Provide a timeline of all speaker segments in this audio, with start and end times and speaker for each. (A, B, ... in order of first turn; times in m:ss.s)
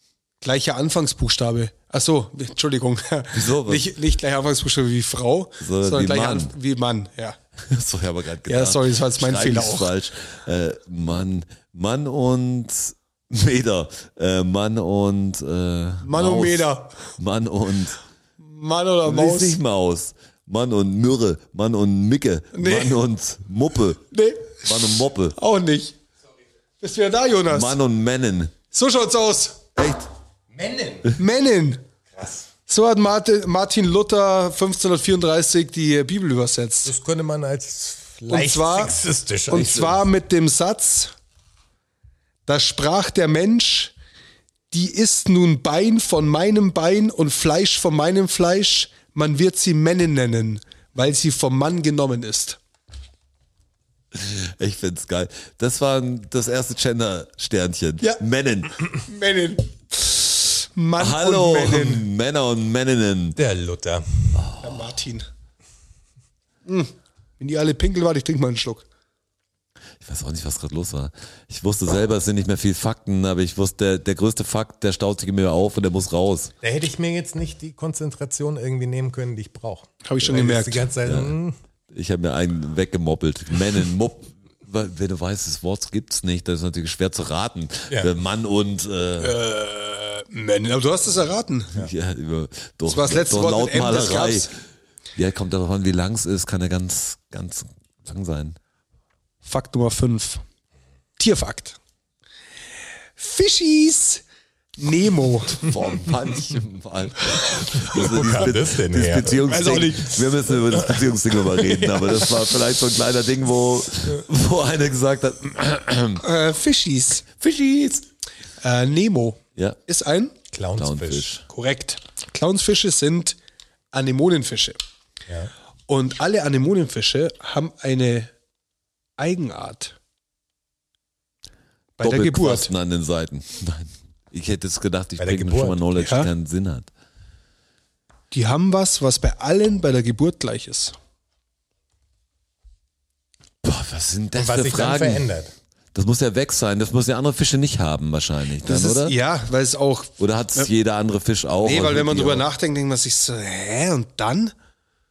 0:00.4-0:07.4 A
0:03.3-0:03.9 B
0:05.6-0:06.5 B
0:07.6-0:18.0 B
0:08.4-0:09.9 A
0:16.0-0:17.1 A
0:18.4-0:19.6 A
0:19.0-0:24.0 B
0:22.5-0:23.0 A
0:24.1-0:25.9 A
0:24.6-0:25.3 B
0:26.8-0:27.8 A
0:27.5-0:28.6 B
0:28.7-0:29.7 A
0:29.8-0:30.0 B
0:30.5-0:31.2 C
0:31.1-0:31.8 A
0:32.2-0:32.4 C
0:32.7-0:37.0 A
0:36.8-0:40.0 C
0:38.3-0:41.1 A
0:42.4-0:43.9 A
0:44.7-0:52.6 A
0:54.1-0:58.8 B
0:58.9-1:02.1 A
1:01.0-1:03.4 B
1:03.4-1:04.4 C
1:04.3-1:04.9 B
1:04.6-1:05.3 A
1:06.6-1:08.8 A
1:10.0-1:16.5 B
1:16.6-1:21.6 C
1:20.0-1:20.9 A
1:21.0-1:21.3 B
1:21.9-1:29.4 B
1:29.2-1:31.8 A
1:31.7-1:34.5 B
1:32.9-1:34.5 A
1:35.1-1:38.6 B
1:39.4-1:40.4 A
1:41.2-1:41.8 A
1:43.2-1:44.2 A
1:44.8-1:45.7 A
1:45.5-1:56.2 B
1:47.6-1:47.9 A
1:47.8-1:49.8 C
1:49.4-1:50.3 A
1:50.7-1:52.0 C
1:56.2-1:57.4 A
1:57.4-1:58.0 B
1:58.6-2:00.4 A
2:00.5-2:01.3 C
2:00.8-2:01.4 B
2:01.5-2:03.4 A
2:03.9-2:04.8 A
2:05.9-2:08.3 A
2:09.2-2:10.0 A
2:12.0-2:12.7 A
2:12.0-2:16.9 B
2:15.2-2:15.8 C
2:16.0-2:16.3 A
2:18.3-2:21.0 A
2:23.6-2:25.3 B
2:24.3-2:25.5 C
2:25.9-2:29.1 B
2:28.6-2:30.7 A
2:30.2-2:32.5 B
2:31.6-2:34.5 A